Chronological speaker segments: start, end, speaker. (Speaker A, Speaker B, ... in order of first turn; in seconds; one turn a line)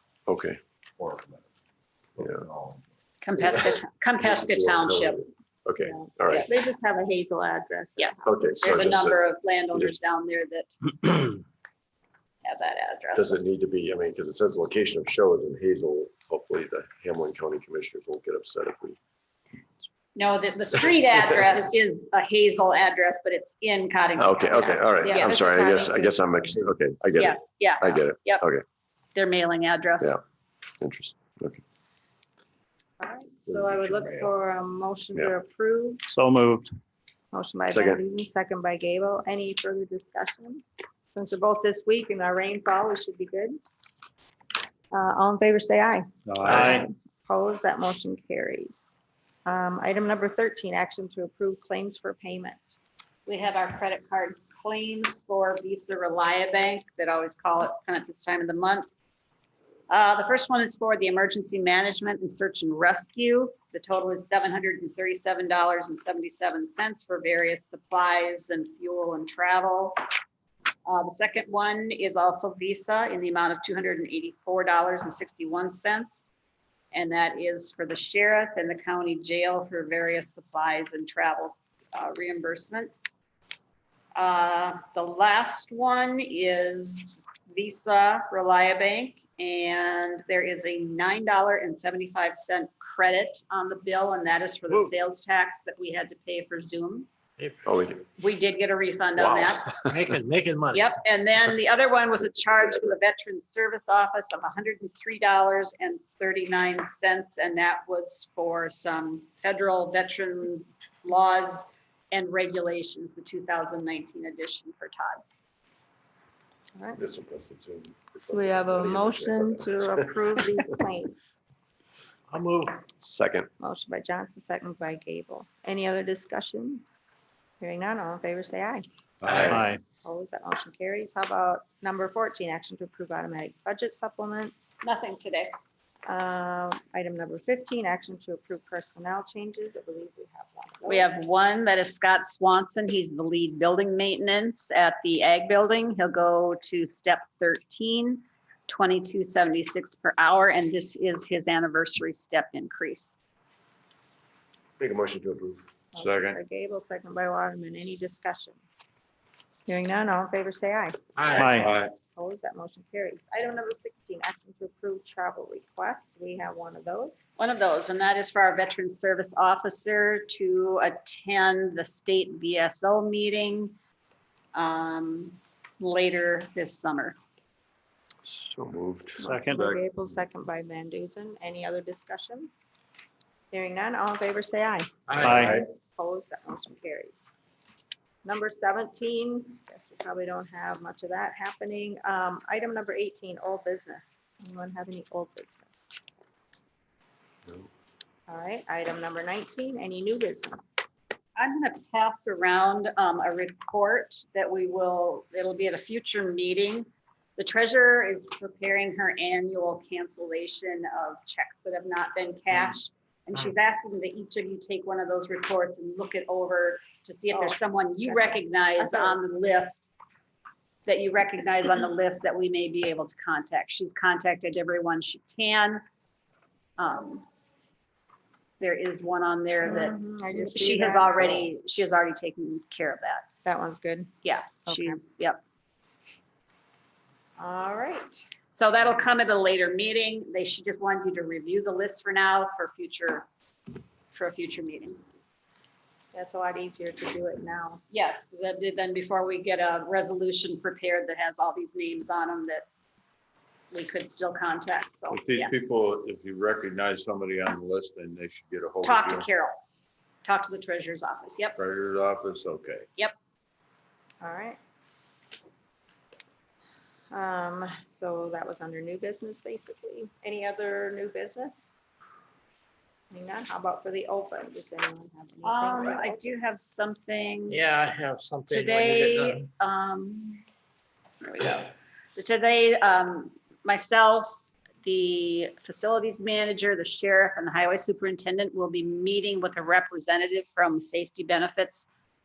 Speaker A: 0.3-0.5
Speaker B: 0.3-1.4
Speaker B: 2.1-2.8
Speaker C: 3.2-5.2
Speaker A: 4.2-6.5
Speaker D: 5.8-8.8
Speaker C: 8.0-11.4
Speaker A: 8.2-9.2
Speaker C: 12.4-13.4
Speaker A: 13.1-19.0
Speaker C: 20.1-25.4
Speaker A: 24.2-28.6
Speaker D: 24.5-26.3
Speaker C: 27.1-28.4
Speaker C: 29.1-30.2
Speaker A: 30.8-31.6
Speaker D: 33.0-36.0
Speaker A: 33.5-34.0
Speaker E: 36.1-36.7
Speaker D: 37.3-40.6
Speaker A: 37.7-38.0
Speaker D: 41.1-43.6
Speaker D: 44.9-48.9
Speaker E: 46.3-46.9
Speaker D: 49.5-52.8
Speaker C: 53.2-58.9
Speaker C: 59.9-70.0
Speaker C: 70.8-76.2
Speaker C: 76.9-83.2
Speaker C: 84.2-97.1
Speaker F: 97.4-97.7
Speaker A: 97.7-98.0
Speaker C: 98.2-99.8
Speaker F: 99.2-101.0
Speaker C: 100.7-115.2
Speaker A: 117.0-120.1
Speaker D: 118.3-121.2
Speaker F: 122.3-122.9
Speaker A: 123.0-123.5
Speaker D: 123.6-126.8
Speaker D: 127.6-128.8
Speaker B: 129.2-129.5
Speaker F: 129.2-129.6
Speaker E: 129.4-129.8
Speaker D: 130.0-134.7
Speaker C: 134.8-135.5
Speaker D: 136.1-141.1
Speaker C: 140.8-153.1
Speaker A: 154.8-155.6
Speaker D: 155.9-158.6
Speaker B: 156.0-156.4
Speaker D: 159.7-167.2
Speaker F: 161.2-161.7
Speaker E: 161.4-161.7
Speaker B: 161.6-161.9
Speaker C: 167.4-173.7
Speaker C: 174.5-177.2
Speaker B: 178.3-180.0
Speaker D: 179.2-182.5
Speaker E: 179.2-179.7
Speaker D: 183.5-184.9
Speaker F: 185.1-185.4
Speaker E: 185.2-185.6
Speaker D: 185.9-187.3
Speaker D: 188.2-195.7
Speaker D: 198.3-200.6
Speaker C: 201.3-206.8
Speaker C: 207.4-219.9
Speaker D: 217.3-219.3
Speaker C: 220.8-225.8
Speaker C: 226.8-227.2
Speaker C: 228.6-233.2
Speaker D: 229.6-231.5
Speaker D: 233.4-234.1
Speaker C: 234.2-235.4
Speaker D: 234.7-235.0
Speaker D: 237.4-238.2
Speaker C: 238.5-243.3
Speaker C: 244.1-245.0
Speaker D: 246.1-247.8
Speaker C: 247.9-252.7
Speaker C: 253.7-255.5
Speaker B: 255.1-259.3
Speaker C: 258.8-259.6
Speaker C: 260.2-261.6
Speaker B: 261.6-262.9
Speaker D: 264.2-264.6
Speaker D: 267.1-271.7
Speaker D: 273.1-276.2
Speaker C: 275.4-277.6
Speaker F: 277.5-279.5
Speaker C: 278.5-280.4
Speaker C: 281.2-291.9